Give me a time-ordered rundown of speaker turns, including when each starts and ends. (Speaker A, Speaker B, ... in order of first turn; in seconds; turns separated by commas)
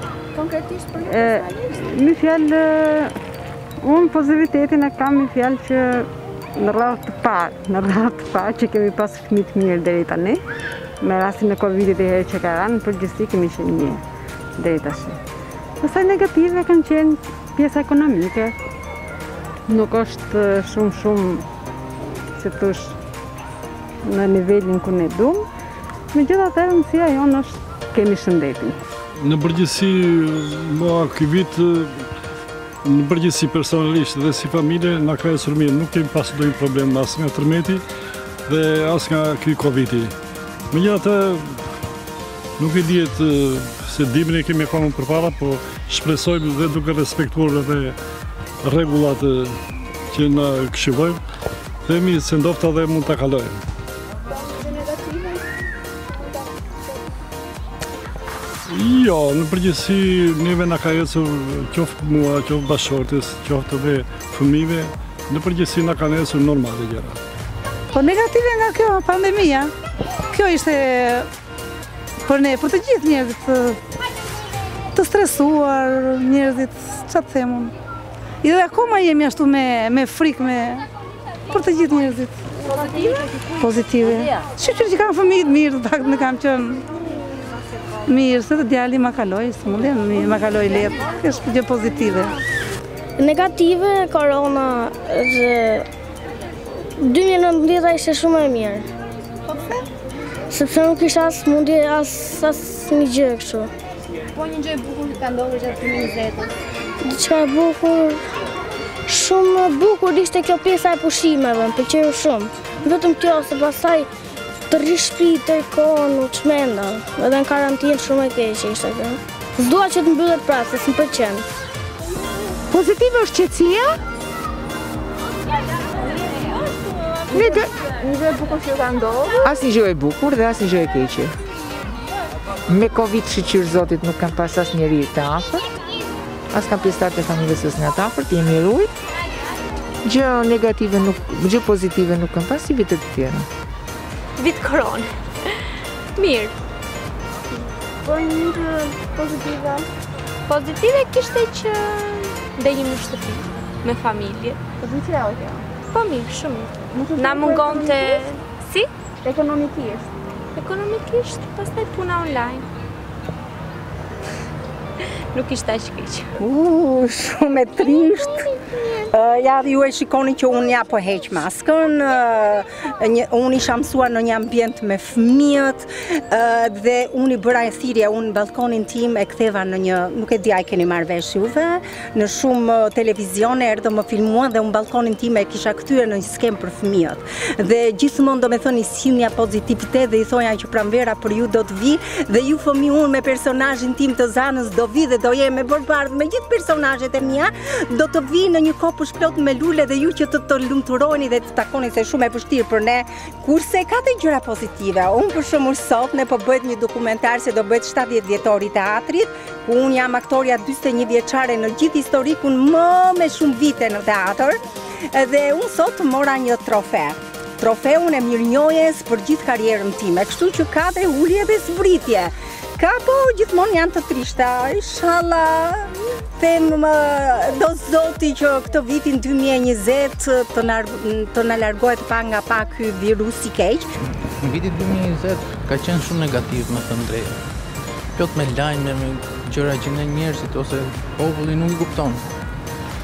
Speaker A: 0.3-1.8, Speaker B: 1.0-3.1, Speaker B: 3.8-10.4, Speaker B: 11.0-14.0, Speaker B: 14.6-15.2, Speaker B: 15.8-18.5, Speaker B: 19.7-21.4, Speaker B: 22.4-22.9, Speaker B: 24.0-25.4, Speaker B: 26.1-28.8, Speaker C: 29.2-31.9, Speaker C: 32.8-37.8, Speaker C: 38.5-40.1, Speaker C: 40.7-41.6, Speaker C: 42.6-48.0, Speaker C: 48.6-49.5, Speaker C: 50.1-51.2, Speaker C: 51.9-53.6, Speaker A: 54.3-55.4, Speaker A: 56.1-57.2, Speaker C: 58.7-67.2, Speaker D: 67.9-69.7, Speaker D: 70.3-71.3, Speaker D: 72.3-73.8, Speaker D: 74.9-77.7, Speaker D: 78.4-80.8, Speaker D: 81.5-82.3, Speaker D: 83.6-86.8, Speaker D: 88.1-92.4, Speaker E: 93.2-95.9, Speaker E: 97.0-98.9, Speaker A: 99.5-99.7, Speaker E: 100.5-103.7, Speaker A: 104.3-106.5, Speaker E: 107.0-108.2, Speaker E: 109.1-114.1, Speaker E: 114.7-121.5, Speaker F: 122.7-123.9, Speaker A: 127.3-129.4, Speaker F: 127.3-127.7, Speaker F: 129.4-131.3, Speaker F: 132.7-135.6, Speaker F: 136.5-138.9, Speaker F: 140.0-143.5, Speaker G: 144.4-145.5, Speaker G: 146.2-146.5, Speaker A: 148.0-149.8, Speaker G: 150.5-154.6, Speaker A: 154.8-155.7, Speaker G: 155.9-158.9, Speaker A: 156.9-158.2, Speaker A: 159.2-160.1, Speaker G: 160.5-162.6, Speaker G: 165.3-166.3, Speaker H: 166.4-233.9, Speaker I: 234.4-237.4, Speaker I: 238.1-242.2